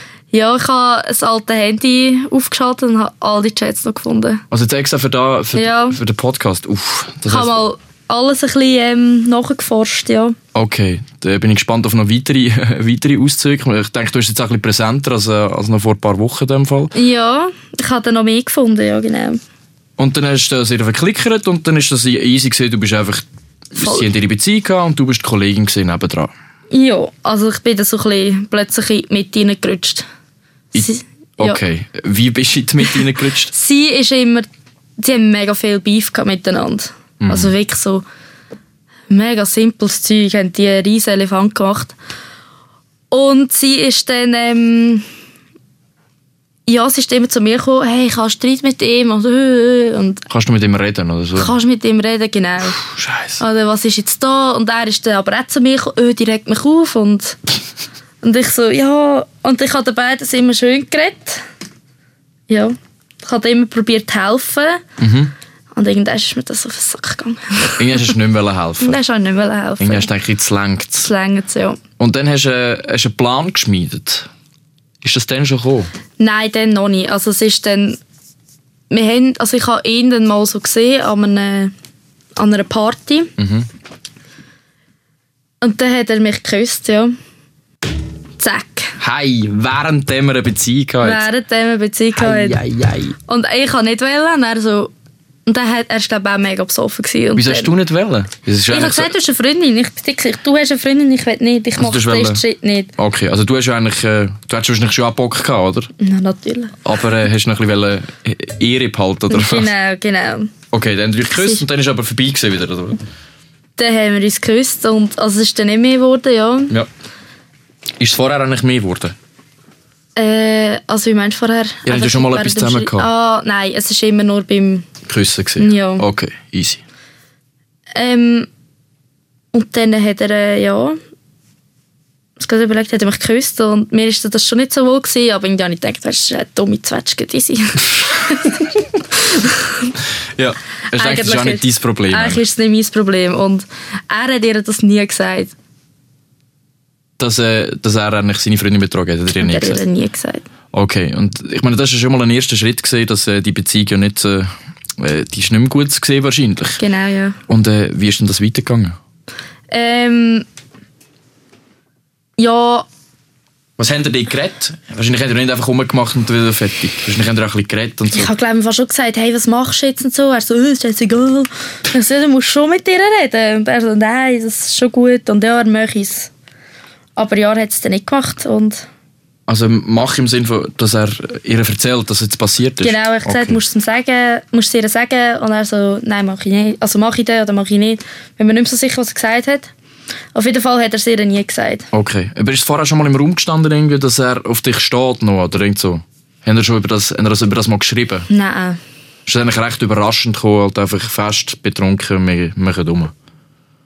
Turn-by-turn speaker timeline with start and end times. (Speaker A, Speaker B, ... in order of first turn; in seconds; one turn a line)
Speaker A: 0.3-4.4
Speaker B: 4.5-7.6
Speaker A: 5.5-6.0
Speaker A: 7.3-10.4
Speaker B: 10.5-16.9
Speaker A: 16.9-19.4
Speaker B: 20.0-23.2
Speaker B: 23.8-26.3
Speaker A: 23.8-24.1
Speaker A: 26.7-30.1
Speaker A: 30.7-31.6
Speaker B: 30.8-33.5
Speaker A: 33.5-34.5
Speaker A: 35.0-38.0
Speaker B: 37.2-37.5
Speaker A: 39.1-42.0
Speaker A: 43.1-45.1
Speaker A: 46.7-50.2
Speaker B: 50.3-51.6
Speaker A: 51.4-52.8
Speaker B: 52.8-53.4
Speaker A: 53.4-57.4
Speaker A: 58.2-61.4
Speaker A: 62.5-64.8
Speaker B: 65.0-65.3
Speaker A: 65.8-68.1
Speaker B: 67.8-69.0
Speaker A: 68.8-70.1
Speaker B: 69.8-71.1
Speaker A: 71.0-71.8
Speaker B: 72.0-74.3
Speaker B: 75.0-75.9
Speaker A: 76.2-78.0
Speaker A: 78.9-81.7
Speaker A: 82.4-83.3
Speaker B: 83.4-83.7
Speaker A: 85.6-87.1
Speaker A: 88.4-89.0
Speaker B: 89.0-91.3
Speaker A: 91.0-92.6
Speaker B: 92.2-93.2
Speaker A: 93.2-94.9
Speaker A: 95.5-97.7
Speaker B: 97.4-99.1
Speaker A: 98.7-102.9
Speaker B: 101.8-102.4
Speaker B: 103.0-105.9
Speaker A: 106.0-106.8
Speaker B: 106.8-109.7
Speaker A: 109.3-110.5
Speaker B: 110.7-113.0
Speaker A: 111.3-111.6
Speaker A: 113.8-116.7
Speaker B: 118.0-119.2
Speaker A: 120.2-124.9
Speaker B: 121.8-123.1
Speaker B: 125.1-126.8
Speaker A: 125.6-126.0
Speaker A: 128.0-128.5
Speaker A: 129.5-131.0
Speaker A: 132.4-139.9
Speaker B: 140.4-142.4
Speaker A: 140.9-145.5
Speaker B: 147.2-149.8
Speaker A: 149.4-150.5
Speaker B: 150.7-156.8
Speaker A: 156.8-157.4
Speaker B: 157.5-159.0
Speaker A: 159.7-160.5
Speaker A: 162.4-162.9
Speaker B: 163.8-168.3
Speaker A: 168.1-176.3
Speaker A: 177.2-178.9
Speaker B: 179.5-183.6
Speaker A: 182.8-189.7
Speaker A: 190.3-191.9
Speaker B: 191.9-198.3
Speaker A: 198.3-198.8
Speaker B: 199.3-203.1